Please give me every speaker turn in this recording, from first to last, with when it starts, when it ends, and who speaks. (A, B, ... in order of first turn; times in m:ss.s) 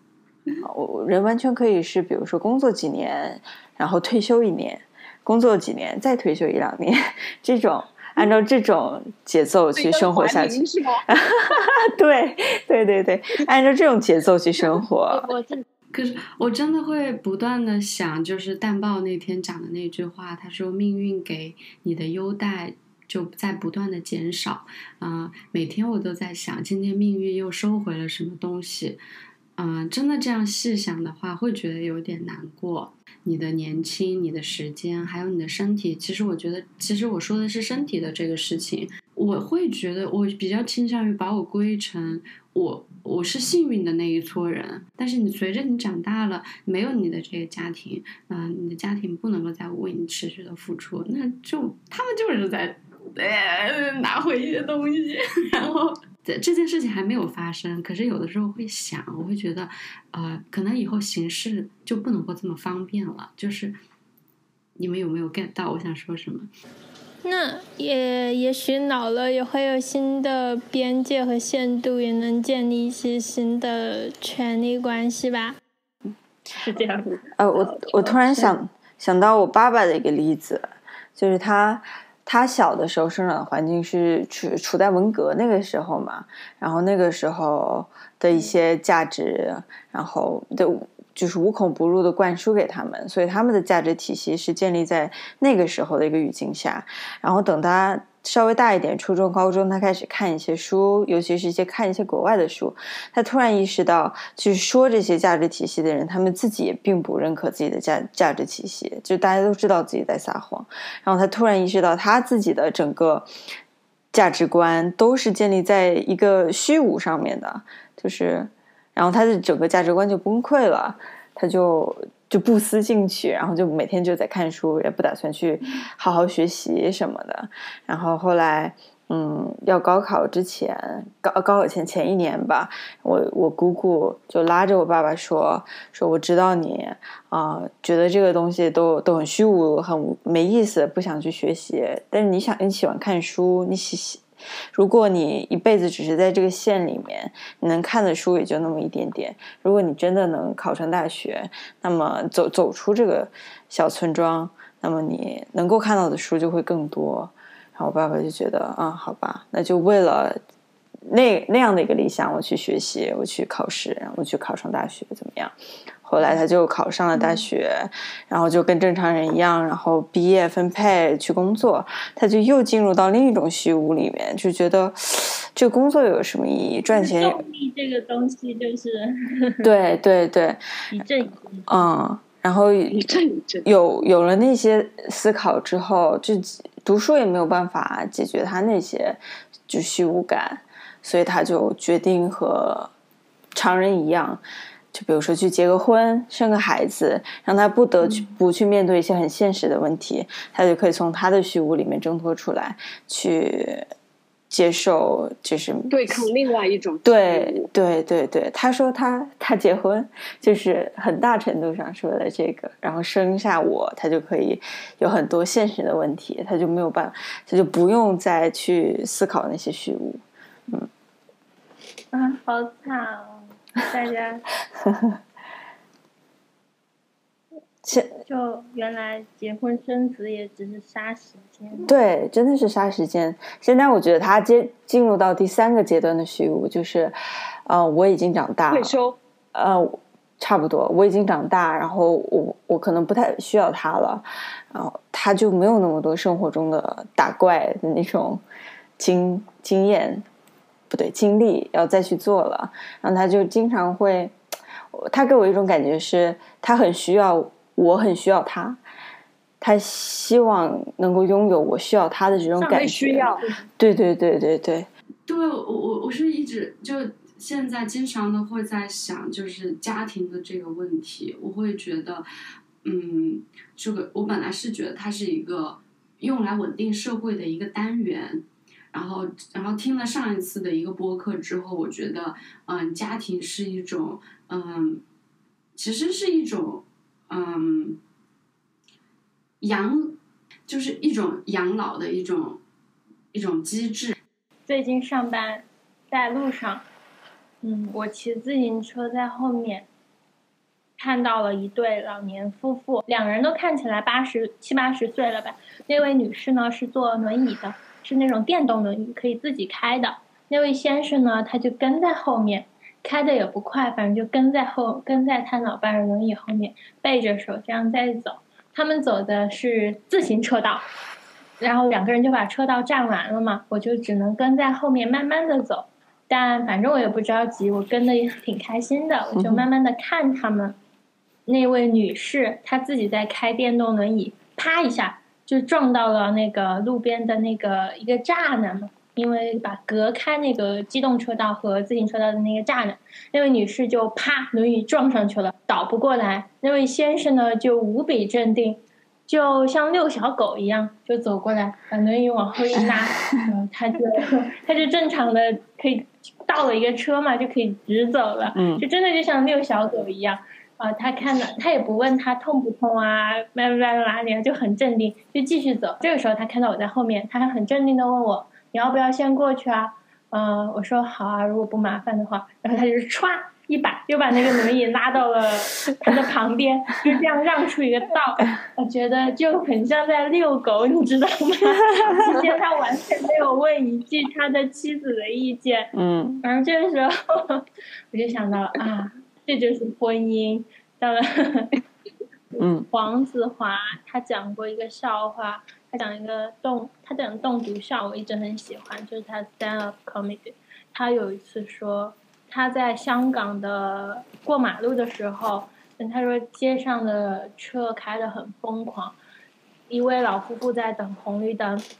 0:00.6-0:15.3 A
0:09.7-0:11.0 B
0:15.9-0:29.0 C
0:29.6-1:03.8 C
1:04.8-1:06.5 C
1:07.2-1:15.6 D
1:16.6-1:17.2 E
1:17.4-1:53.3 A
1:54.1-2:40.4 A
2:41.1-2:57.4 A
2:47.1-2:47.4 E
2:56.9-2:59.7 E
2:59.6-3:00.6 A
3:00.9-3:01.7 E
3:01.7-3:03.1 A
3:02.9-3:03.7 B
3:03.6-3:12.9 A
3:13.5-3:14.4 A
3:14.9-3:23.9 A
3:24.5-3:26.3 A
3:25.9-3:27.7 B
3:27.0-3:40.9 A
3:42.1-3:44.4 E
3:44.8-3:45.1 A
3:47.8-3:48.1 A
3:48.3-3:51.9 E
3:51.8-3:57.1 A
3:57.6-3:59.0 A
3:58.7-3:59.2 B
3:59.5-4:08.4 A
4:09.0-4:10.2 A
4:10.9-4:14.4 A
4:14.9-4:18.8 A
4:19.6-4:24.9 A
4:22.6-4:23.4 B
4:25.3-4:32.2 C
4:32.8-4:45.0 C
4:45.8-4:48.0 C
4:49.6-4:52.6 C
4:53.3-4:54.2 C
4:54.7-4:56.9 E
4:57.6-4:59.9 E
5:01.0-5:20.8 E
5:21.6-5:30.8 E
5:29.3-5:29.7 A
5:31.5-6:25.9 E
5:58.5-5:58.8 A
6:21.9-6:22.3 A
6:25.9-6:26.4 A
6:26.4-6:31.7 E
6:32.6-6:49.2 E
6:32.6-6:32.9 A
6:49.9-6:51.8 E